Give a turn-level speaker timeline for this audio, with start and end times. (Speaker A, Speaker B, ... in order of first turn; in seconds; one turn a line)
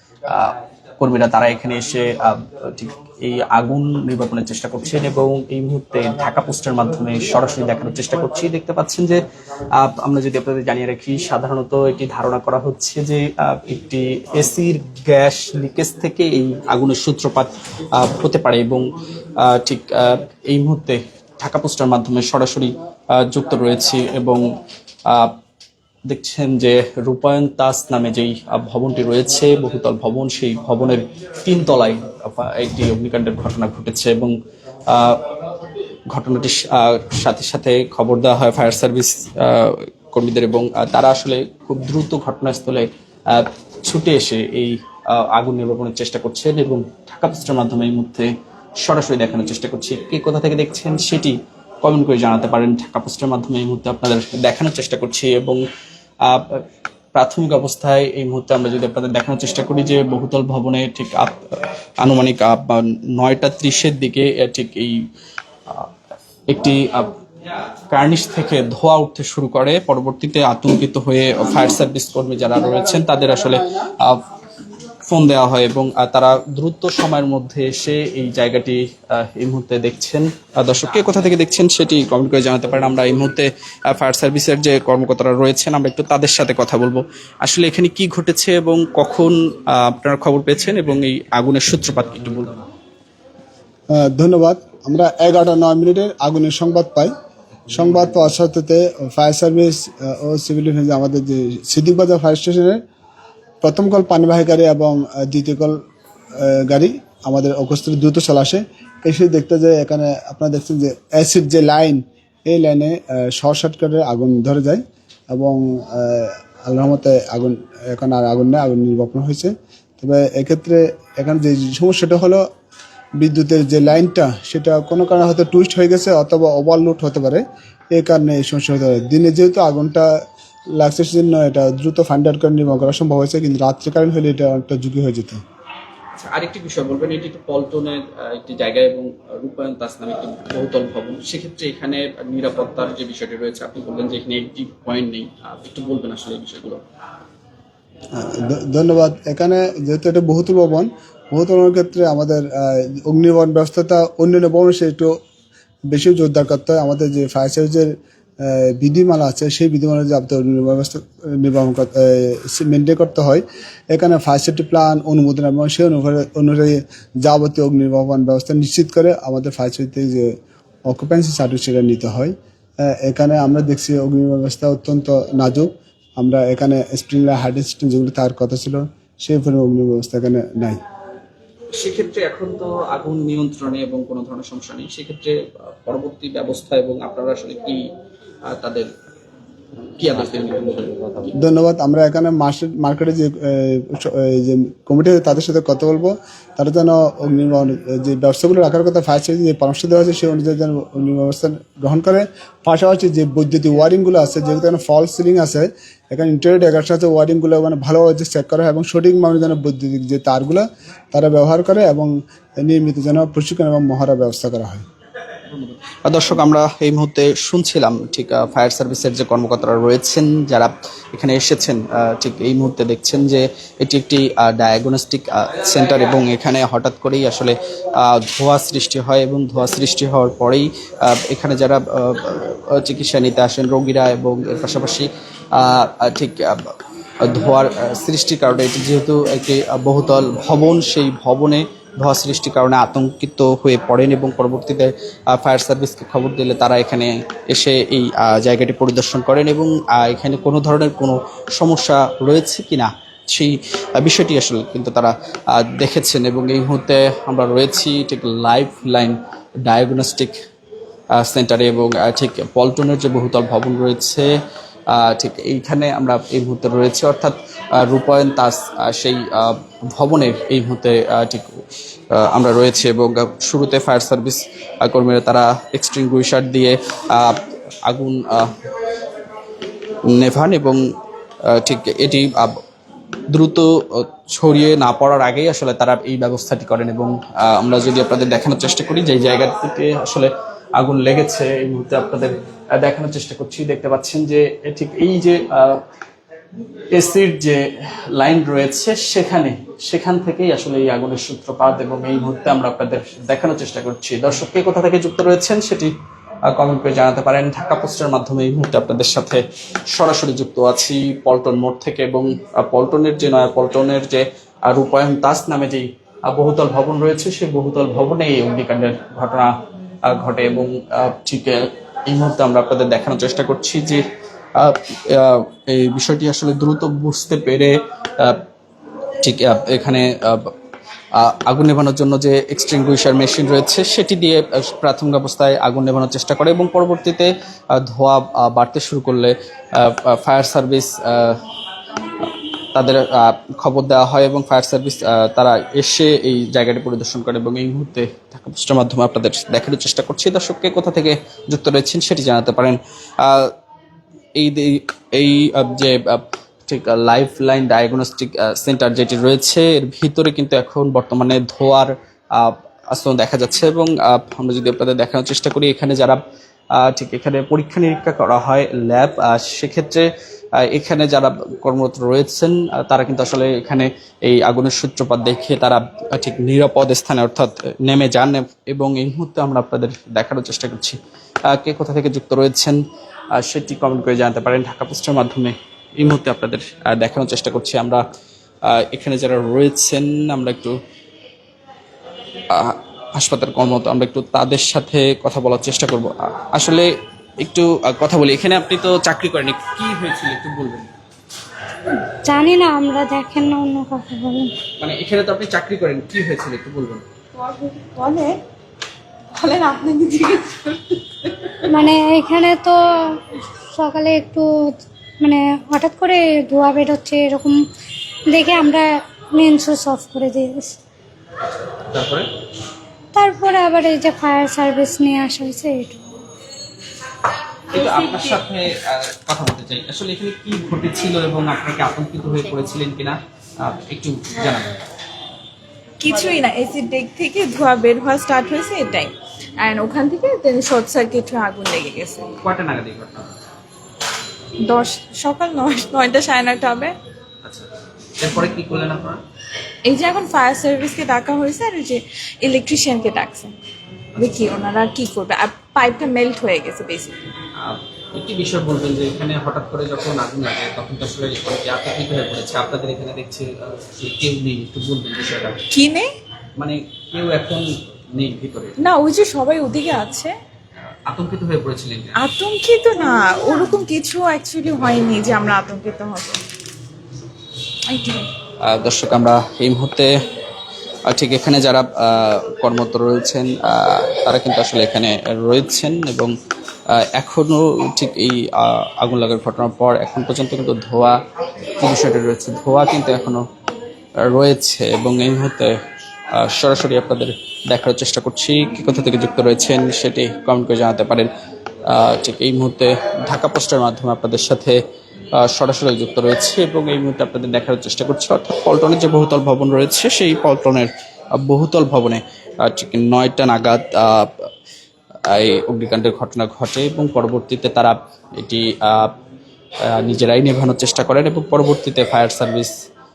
Speaker A: 0.3-9.2
Speaker A: 9.8-18.8
Speaker A: 19.4-24.5
Speaker A: 25.1-25.4
Speaker A: 26.1-34.4
Speaker A: 34.9-35.3
Speaker A: 36.1-48.3
Speaker A: 48.8-55.6
Speaker A: 56.2-56.6
Speaker A: 57.1-61.4
Speaker A: 62.0-65.0
Speaker A: 66.5-67.1
Speaker A: 67.9-74.2
Speaker A: 75.1-92.6
Speaker B: 93.9-97.1
Speaker B: 97.7-102.8
Speaker B: 103.6-105.8
Speaker B: 106.4-122.4
Speaker B: 123.2-127.4
Speaker B: 127.9-130.1
Speaker B: 130.8-135.4
Speaker A: 136.1-146.8
Speaker B: 148.2-155.2
Speaker B: 155.9-170.3
Speaker B: 170.9-180.8
Speaker A: 181.7-187.9
Speaker A: 188.5-188.9
Speaker A: 190.0-191.3
Speaker B: 191.4-214.8
Speaker A: 215.5-260.3
Speaker A: 261.1-264.3
Speaker A: 264.9-271.6
Speaker A: 272.1-278.5
Speaker A: 280.1-280.8
Speaker A: 281.5-282.6
Speaker A: 283.3-295.8
Speaker A: 296.9-297.6
Speaker A: 298.1-305.9
Speaker A: 306.4-319.5
Speaker A: 320.1-324.0
Speaker A: 324.6-328.4
Speaker A: 329.2-330.5
Speaker A: 331.1-341.4
Speaker A: 342.7-353.5
Speaker A: 354.4-366.2
Speaker A: 366.8-370.1
Speaker A: 370.6-381.0
Speaker A: 381.5-382.8
Speaker A: 383.4-388.0
Speaker A: 388.7-390.8
Speaker A: 392.5-396.9
Speaker A: 397.4-400.9
Speaker C: 402.2-404.5
Speaker A: 404.8-407.0
Speaker D: 407.3-408.4
Speaker D: 409.3-411.0
Speaker C: 411.7-413.2
Speaker C: 413.7-414.4
Speaker C: 415.2-417.6
Speaker C: 418.3-420.8
Speaker A: 421.7-422.3
Speaker C: 423.1-426.0
Speaker A: 427.7-434.8
Speaker D: 436.0-442.3
Speaker A: 442.4-443.3
Speaker D: 444.6-446.9
Speaker A: 447.4-449.2
Speaker D: 449.9-453.5
Speaker D: 454.2-457.3
Speaker A: 457.6-465.6
Speaker D: 465.7-466.1
Speaker A: 466.6-468.8
Speaker D: 468.8-470.3
Speaker A: 471.1-472.2
Speaker D: 472.2-476.4
Speaker D: 477.9-478.3
Speaker A: 478.6-480.1
Speaker A: 481.1-486.3
Speaker A: 486.9-491.2
Speaker A: 491.8-493.4
Speaker A: 494.2-495.7
Speaker A: 496.3-501.3
Speaker A: 501.9-504.8
Speaker A: 505.4-514.4
Speaker A: 515.3-519.1
Speaker A: 519.9-522.7